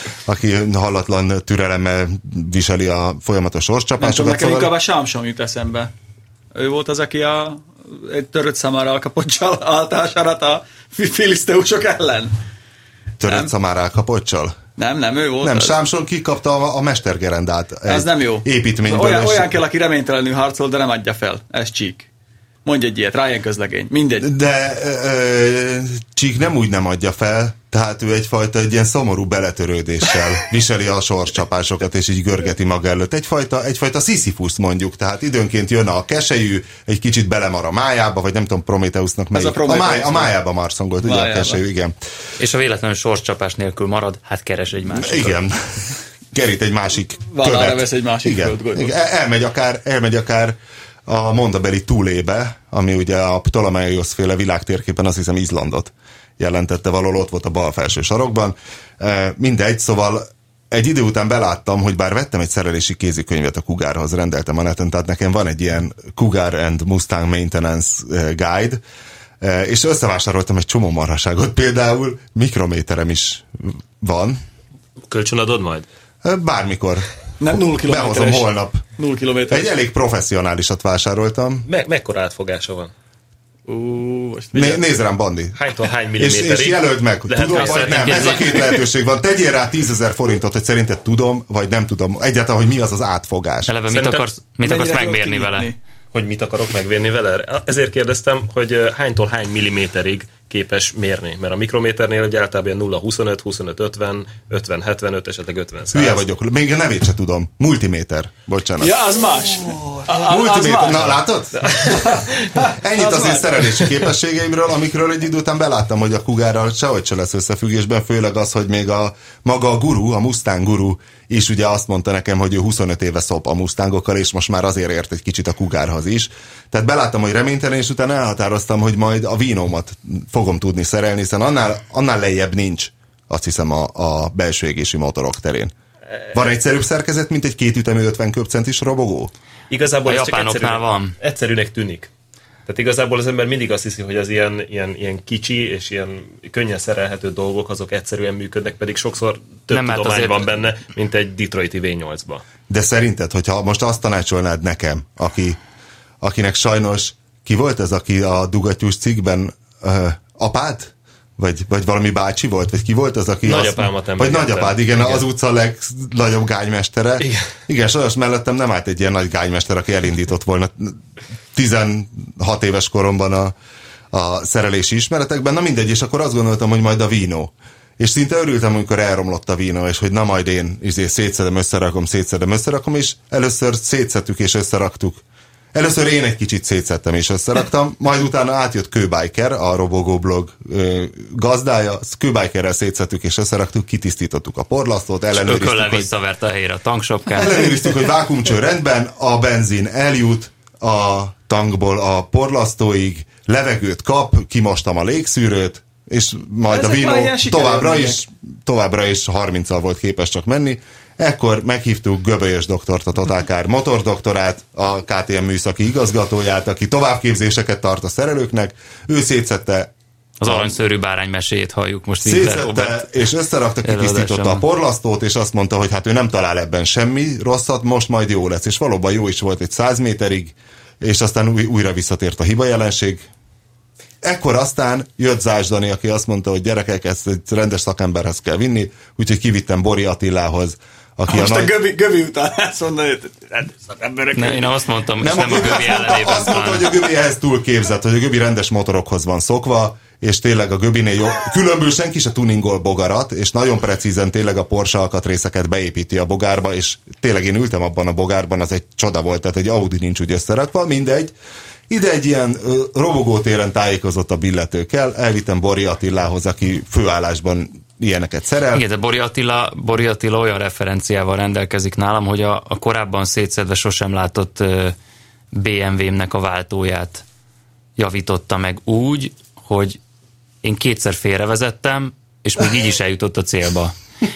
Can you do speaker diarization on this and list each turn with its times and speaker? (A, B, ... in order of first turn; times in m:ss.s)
0:00.3-0:04.8 A
0:04.0-0:05.9 B
0:06.5-0:12.3 B
0:13.2-0:14.6 A
0:14.8-0:15.8 B
0:15.4-0:19.5 A
0:17.9-0:22.1 B
0:22.6-0:24.3 B
0:24.2-0:42.0 A
0:39.3-0:40.3 B
0:41.0-0:41.6 B
0:42.4-0:45.4 C
0:44.9-1:08.8 A
0:47.3-0:48.9 B
1:09.4-1:14.4 A
1:15.1-1:15.9 D
1:16.2-1:18.8 A
1:17.4-1:19.7 B
1:19.5-1:21.7 A
1:21.7-1:22.9 D
1:23.7-1:24.9 B
1:24.5-1:25.6 A
1:25.6-1:28.7 D
1:26.2-1:33.7 A
1:27.5-1:28.5 C
1:33.7-1:35.7 C
1:33.9-1:34.2 D
1:34.6-1:35.8 B
1:36.1-1:46.2 D
1:45.9-1:49.2 A
1:48.8-1:51.2 B
1:50.1-1:52.1 A
1:51.6-1:52.1 D
1:51.7-1:53.9 B
1:52.7-2:15.7 A
2:16.3-2:19.3 A
2:19.7-2:22.1 D
2:20.1-2:21.2 C
2:22.7-2:32.4 D
2:29.7-2:30.5 C
2:32.7-2:35.6 A
2:36.2-2:51.0 A
2:43.4-2:45.3 D
2:47.2-2:47.5 D
2:51.5-2:53.5 A
2:54.1-3:05.2 A
3:05.7-3:16.1 A
3:15.3-3:17.7 C
3:17.3-3:39.9 A
3:26.7-3:28.2 B
3:40.4-3:43.3 C
3:40.4-3:40.8 A
3:42.2-3:53.3 A
3:43.8-3:44.6 C
3:54.2-4:01.7 A
4:01.3-4:06.1 B
4:04.3-4:07.0 C
4:05.2-4:21.3 A
4:21.9-4:28.8 A
4:28.7-4:35.0 C
4:35.5-4:37.2 C
4:38.0-4:40.0 C
4:40.6-4:44.0 C